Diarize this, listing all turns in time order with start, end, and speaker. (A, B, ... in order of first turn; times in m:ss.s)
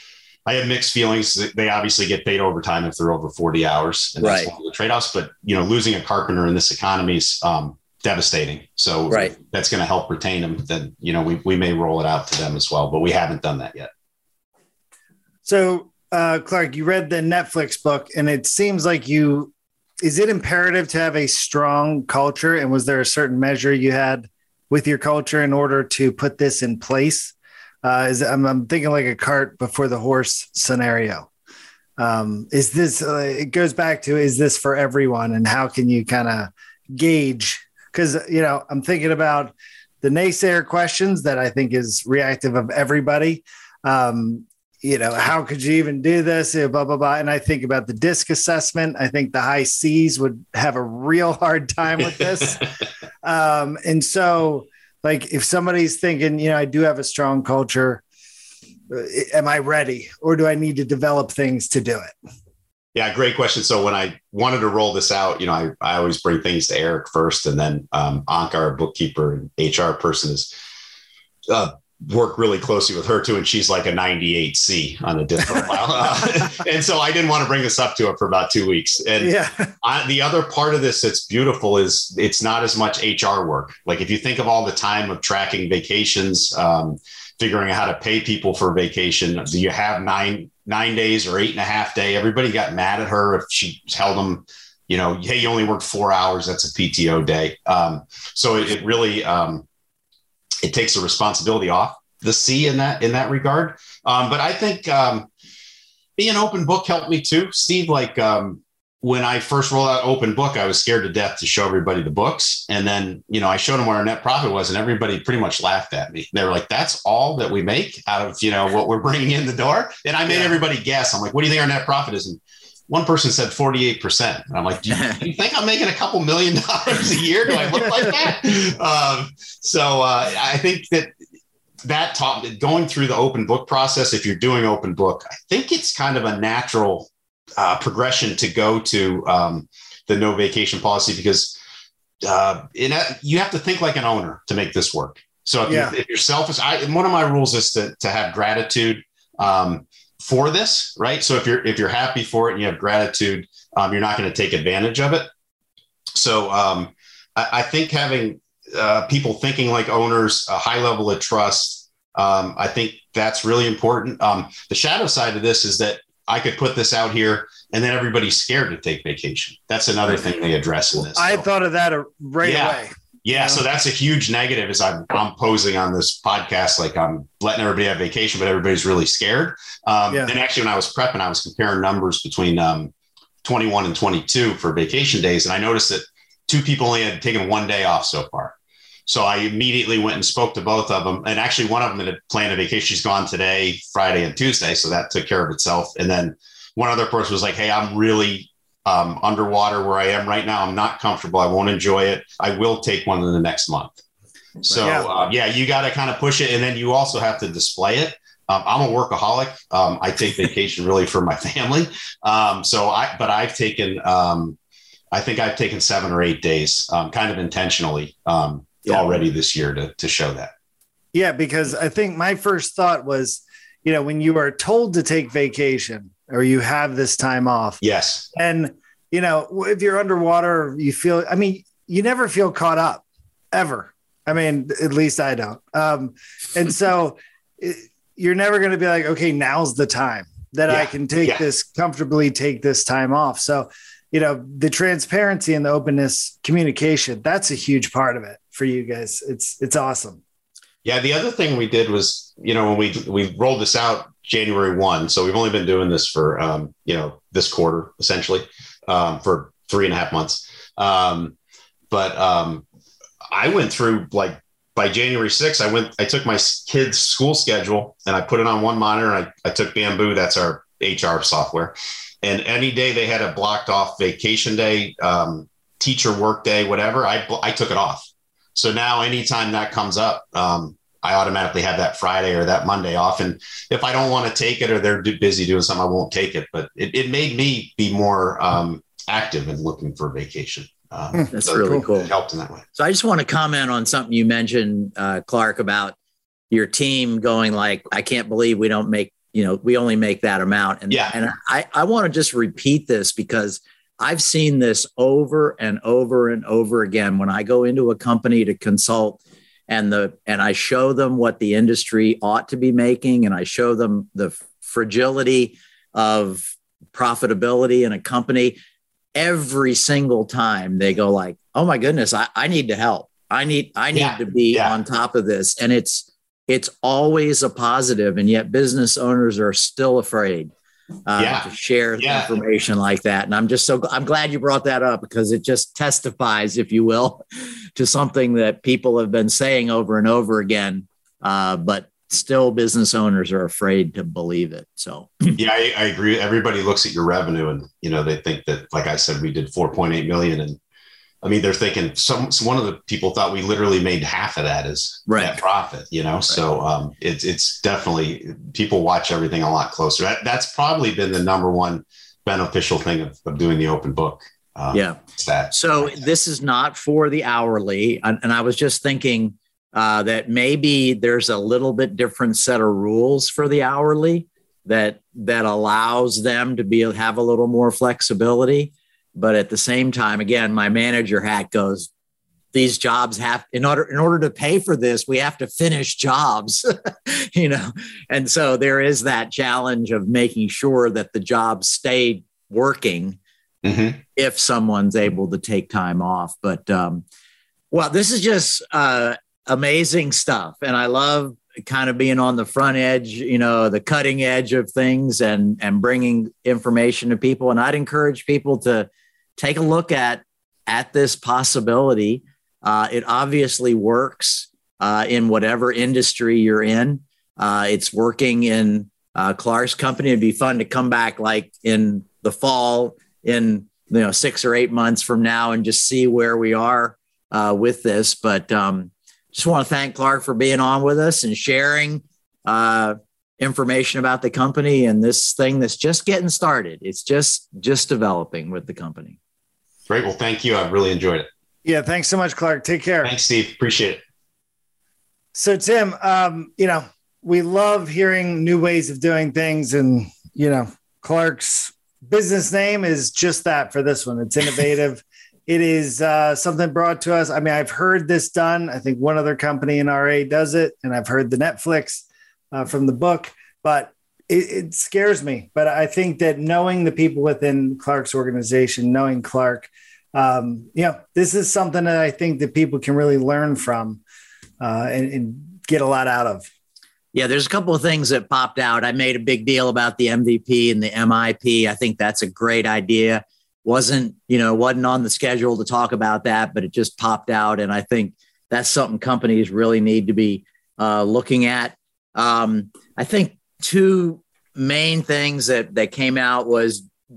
0:00.5-0:13.9 A
0:04.2-0:04.5 B
0:09.1-0:09.4 B
0:15.4-0:31.3 C
0:32.0-0:52.6 C
0:53.2-0:58.0 C
0:58.9-1:02.2 C
1:03.0-1:10.5 A
1:11.5-1:39.6 A
1:19.2-1:19.7 C
1:40.6-1:45.3 A
1:46.2-2:11.1 A
2:04.9-2:05.2 B
2:11.8-2:21.6 A
2:22.2-2:35.3 A
2:25.7-2:25.9 C
2:36.1-2:51.4 A
2:51.1-2:53.6 C
2:52.4-3:02.9 A
3:03.4-3:08.6 A
3:09.1-3:24.0 A
3:24.6-3:34.6 A
3:24.8-3:25.1 C
3:35.1-3:40.5 A
3:41.1-3:47.8 C
3:47.8-3:48.3 A
3:48.3-4:10.2 C
4:00.7-4:01.4 A
4:10.8-4:21.4 A
4:21.9-4:22.6 A
4:23.3-4:52.7 A
4:51.2-4:51.8 C
4:51.3-4:52.1 B
4:52.8-4:56.0 B
4:56.5-5:18.6 B
5:00.9-5:01.2 A
5:19.2-5:30.5 B
5:23.9-5:24.8 A
5:31.1-5:37.2 B
5:31.2-5:32.4 A
5:37.8-5:45.4 B
5:45.4-5:50.6 A
5:51.2-6:06.0 A
5:55.1-5:55.4 B
6:04.7-6:05.0 B
6:05.5-6:21.9 B
6:22.5-6:33.2 B
6:33.6-6:34.0 A
6:34.2-6:37.0 B
6:37.7-7:19.2 B
7:19.9-7:21.3 A
7:21.6-7:23.1 C
7:23.0-7:24.0 A
7:25.3-7:54.0 C
7:54.6-7:56.5 C
7:57.1-8:16.9 B